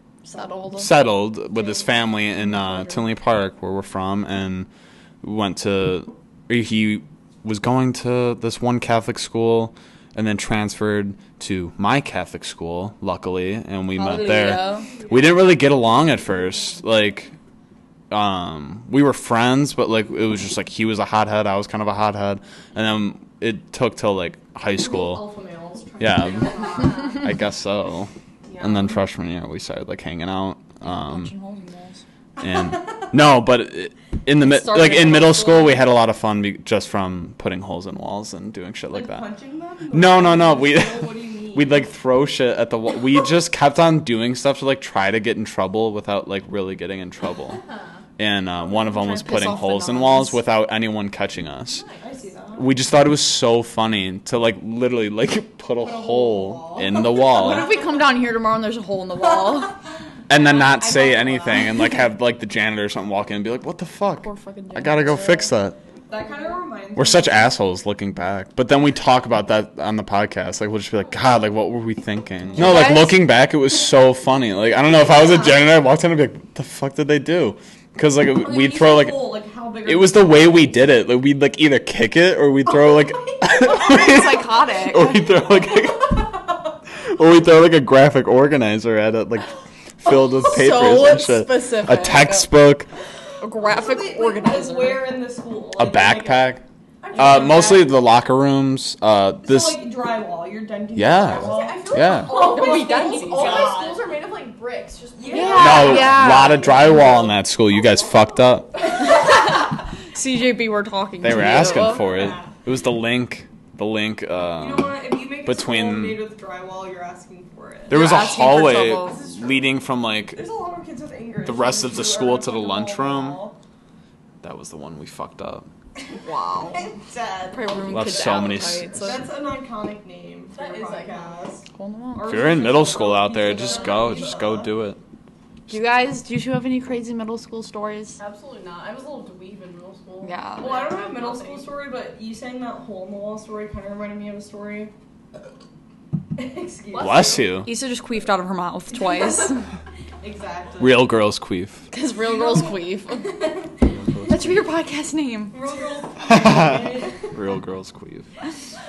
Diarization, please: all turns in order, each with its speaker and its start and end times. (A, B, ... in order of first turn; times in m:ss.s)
0:00.2-0:00.9 A
0:00.8-0:04.7 B
0:05.2-0:17.3 B
0:13.9-0:14.9 A
0:14.5-0:15.3 C
0:18.1-0:25.3 B
0:24.7-0:27.3 C
0:26.0-0:31.3 B
0:26.4-0:27.2 D
0:28.4-0:29.0 C
0:30.8-0:32.0 A
0:32.4-0:39.3 B
0:34.5-0:35.7 A
0:34.7-0:35.7 C
0:38.9-0:41.9 C
0:39.9-0:47.6 B
0:48.2-0:51.8 B
0:48.6-0:50.4 A
0:51.6-0:52.1 D
0:52.0-0:52.7 C
0:52.6-0:57.7 B
0:55.8-0:57.7 C
0:57.1-0:59.8 A
1:00.3-1:05.8 B
1:00.8-1:01.6 C
1:04.2-1:05.5 A
1:06.1-1:07.5 C
1:06.9-1:26.3 B
1:12.5-1:12.9 C
1:12.6-1:13.2 A
1:14.9-1:15.6 C
1:18.4-1:20.8 C
1:22.6-1:25.8 C
1:23.7-1:25.3 A
1:27.0-1:32.9 B
1:30.4-1:32.5 A
1:33.4-1:35.2 A
1:33.6-1:36.6 C
1:35.8-1:36.6 B
1:37.0-1:37.8 D
1:37.1-1:37.9 C
1:37.1-1:39.8 B
1:39.4-1:44.2 C
1:40.9-1:42.5 B
1:41.2-1:46.0 D
1:42.3-1:43.7 A
1:45.2-1:47.2 C
1:45.3-1:47.4 A
1:45.6-1:48.7 B
1:49.0-1:52.1 A
1:51.2-1:56.2 B
1:51.6-1:52.5 C
1:54.6-1:58.0 C
1:57.9-2:00.4 B
1:57.9-1:59.2 A
1:59.0-1:59.7 C
2:00.3-2:03.6 C
2:01.4-2:03.4 B
2:04.4-2:05.7 B
2:06.0-2:14.7 C
2:06.2-2:06.9 A
2:07.5-2:09.2 A
2:07.9-2:09.2 B
2:10.5-2:11.4 D
2:11.7-2:12.3 A
2:12.2-2:15.0 B
2:13.5-2:14.3 D
2:15.7-2:18.2 A
2:18.2-2:21.7 D
2:20.2-2:21.0 A
2:20.6-2:24.9 C
2:26.4-2:27.4 C
2:26.9-2:27.5 D
2:27.0-2:27.7 B
2:27.6-2:29.6 A
2:28.9-2:29.5 C
2:30.2-2:31.1 C
2:30.8-2:31.8 B
2:31.9-2:33.3 A
2:32.3-2:34.3 C
2:33.9-2:34.6 B
2:34.3-2:35.6 A
2:35.5-2:37.4 C
2:36.2-2:38.3 B